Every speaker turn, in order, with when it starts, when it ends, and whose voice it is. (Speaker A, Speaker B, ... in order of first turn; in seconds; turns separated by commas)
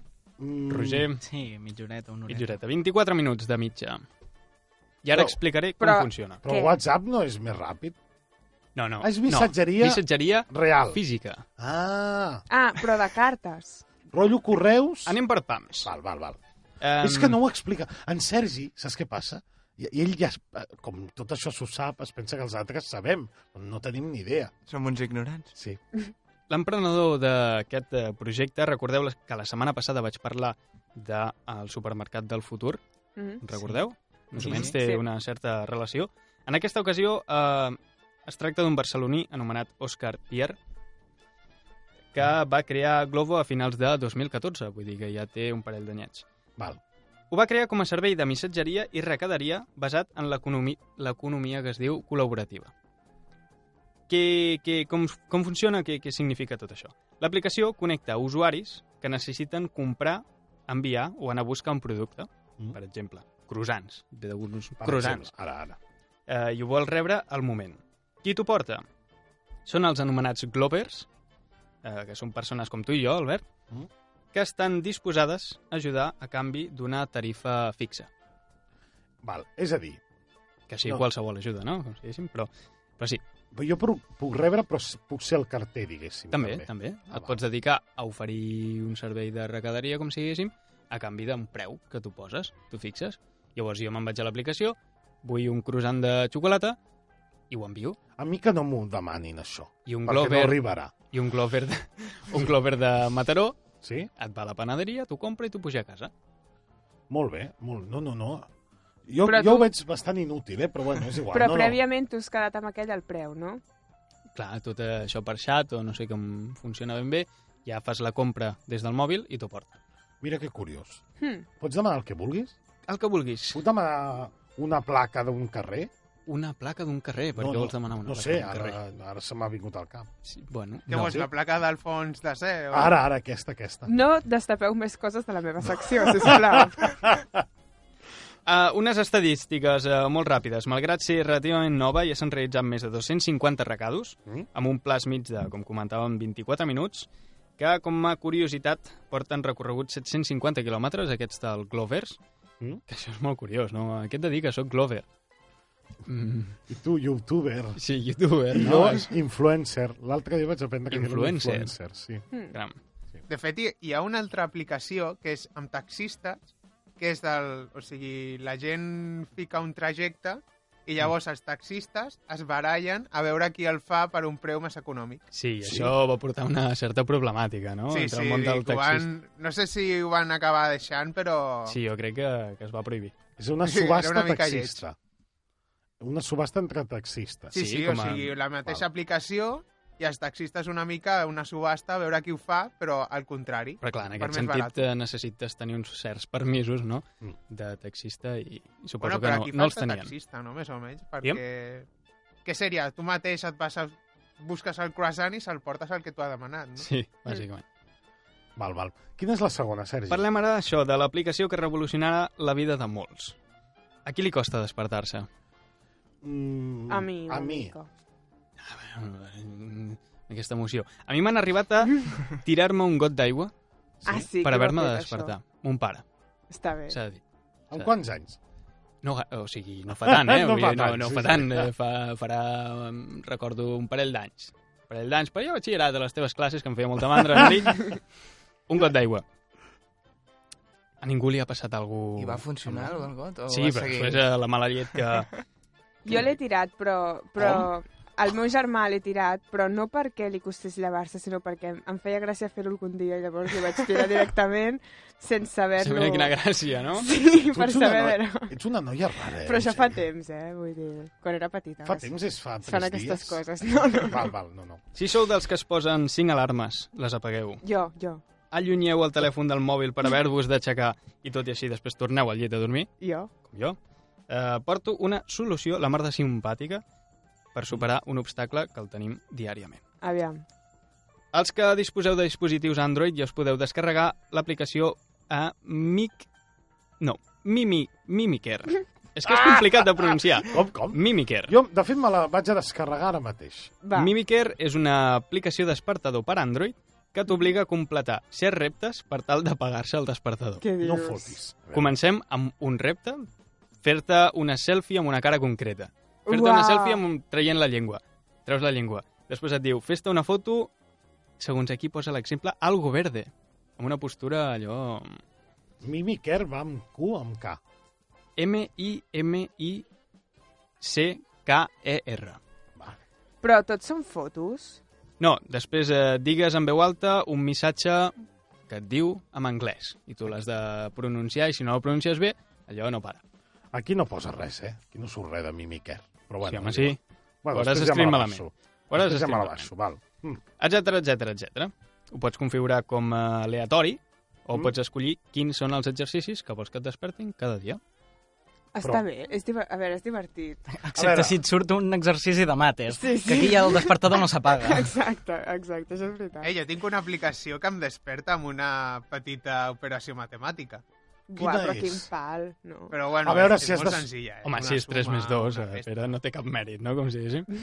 Speaker A: 0.4-1.1, Speaker B: 0.7-1.2, Speaker C: 1.2-2.6, Speaker B: 2.3-4.0, Speaker B: 5.0-6.4, Speaker A: 5.1-5.4, Speaker D: 5.8-6.8, Speaker A: 6.4-8.0, Speaker B: 8.8-11.4, Speaker A: 9.0-11.0, Speaker A: 11.6-12.4, Speaker D: 12.5-13.8, Speaker A: 14.1-15.2, Speaker B: 15.1-15.9, Speaker A: 15.8-16.4, Speaker B: 16.8-17.4, Speaker A: 17.0-24.5, Speaker E: 24.7-25.5, Speaker A: 25.6-25.8, Speaker B: 26.5-32.8, Speaker B: 33.4-40.6, Speaker E: 34.4-34.7, Speaker D: 34.6-35.0, Speaker B: 42.1-46.2, Speaker B: 47.3-52.7, Speaker B: 54.1-65.3, Speaker A: 64.8-65.8, Speaker B: 66.3-68.8, Speaker B: 69.7-71.1, Speaker B: 71.8-73.5, Speaker B: 74.3-78.1, Speaker A: 79.2-80.0, Speaker B: 80.7-83.2, Speaker A: 83.5-87.4, Speaker B: 86.3-96.8, Speaker B: 97.5-98.0, Speaker A: 98.2-100.9, Speaker B: 99.9-103.6, Speaker A: 103.8-104.1, Speaker B: 104.2-106.1, Speaker A: 107.1-108.5, Speaker A: 109.1-111.8, Speaker D: 109.2-109.7, Speaker D: 111.3-113.6, Speaker B: 114.3-119.8, Speaker A: 120.2-121.0, Speaker D: 121.2-121.5, Speaker A: 121.6-122.6, Speaker B: 122.9-123.6, Speaker A: 123.5-125.9, Speaker B: 126.3-128.8, Speaker A: 127.4-130.1, Speaker B: 130.3-131.2, Speaker F: 130.9-133.0, Speaker A: 130.9-131.3, Speaker A: 132.7-133.9, Speaker D: 133.9-137.0, Speaker A: 136.2-137.4, Speaker B: 138.5-152.2, Speaker B: 152.9-155.1, Speaker B: 156.1-156.6, Speaker A: 156.7-157.8, Speaker B: 157.8-159.1, Speaker A: 158.5-162.2, Speaker B: 160.9-161.7, Speaker B: 162.5-162.8, Speaker F: 163.3-175.2, Speaker B: 175.3-179.1, Speaker A: 175.6-176.0, Speaker F: 177.9-181.8, Speaker B: 181.7-183.2, Speaker A: 183.4-185.0, Speaker F: 183.7-184.8, Speaker A: 186.0-187.5, Speaker B: 187.5-188.3, Speaker F: 187.5-194.8, Speaker B: 193.8-200.1, Speaker F: 199.0-201.9, Speaker F: 202.4-206.9, Speaker B: 206.8-207.6, Speaker A: 208.6-210.3, Speaker B: 210.1-213.4, Speaker B: 214.1-215.3, Speaker A: 216.2-217.7, Speaker D: 216.9-217.9, Speaker B: 218.6-223.5, Speaker A: 224.0-224.3, Speaker D: 224.1-225.3, Speaker B: 224.4-226.0, Speaker D: 226.5-227.0, Speaker B: 226.9-227.2, Speaker A: 227.7-228.4, Speaker B: 229.0-238.0, Speaker A: 229.9-231.7, Speaker B: 238.7-239.2, Speaker B: 241.0-242.9, Speaker E: 242.2-244.2, Speaker B: 243.5-245.4, Speaker D: 246.1-256.4, Speaker A: 247.4-247.7, Speaker B: 255.8-257.1, Speaker D: 257.0-258.5, Speaker A: 257.3-260.0, Speaker D: 259.4-262.1, Speaker A: 261.9-264.8, Speaker D: 262.6-264.3, Speaker B: 264.9-267.6, Speaker D: 267.6-268.2, Speaker B: 268.5-272.9, Speaker D: 273.0-273.3, Speaker B: 273.5-273.8, Speaker B: 274.3-276.8, Speaker B: 277.6-279.8, Speaker D: 280.0-280.4, Speaker B: 281.3-286.3, Speaker B: 287.0-291.6, Speaker A: 290.4-293.7, Speaker D: 293.8-294.1, Speaker B: 293.9-300.6, Speaker D: 300.6-301.4, Speaker A: 300.8-302.0, Speaker B: 301.7-303.3, Speaker B: 303.8-310.7, Speaker D: 306.3-307.0, Speaker B: 311.4-315.2, Speaker A: 315.8-317.6, Speaker B: 318.4-319.9, Speaker B: 320.8-322.4, Speaker A: 322.8-323.0, Speaker D: 323.4-324.8, Speaker B: 325.2-328.1, Speaker B: 328.7-333.2, Speaker A: 333.7-340.4, Speaker B: 336.4-337.0, Speaker B: 337.5-339.7, Speaker B: 340.6-347.8, Speaker D: 348.7-350.7, Speaker C: 350.8-354.9, Speaker A: 350.9-351.4, Speaker D: 352.9-354.0, Speaker D: 354.5-356.5, Speaker F: 356.4-360.8, Speaker D: 361.3-362.9, Speaker A: 361.4-362.1, Speaker F: 362.9-365.9, Speaker A: 363.2-364.1, Speaker B: 364.4-367.5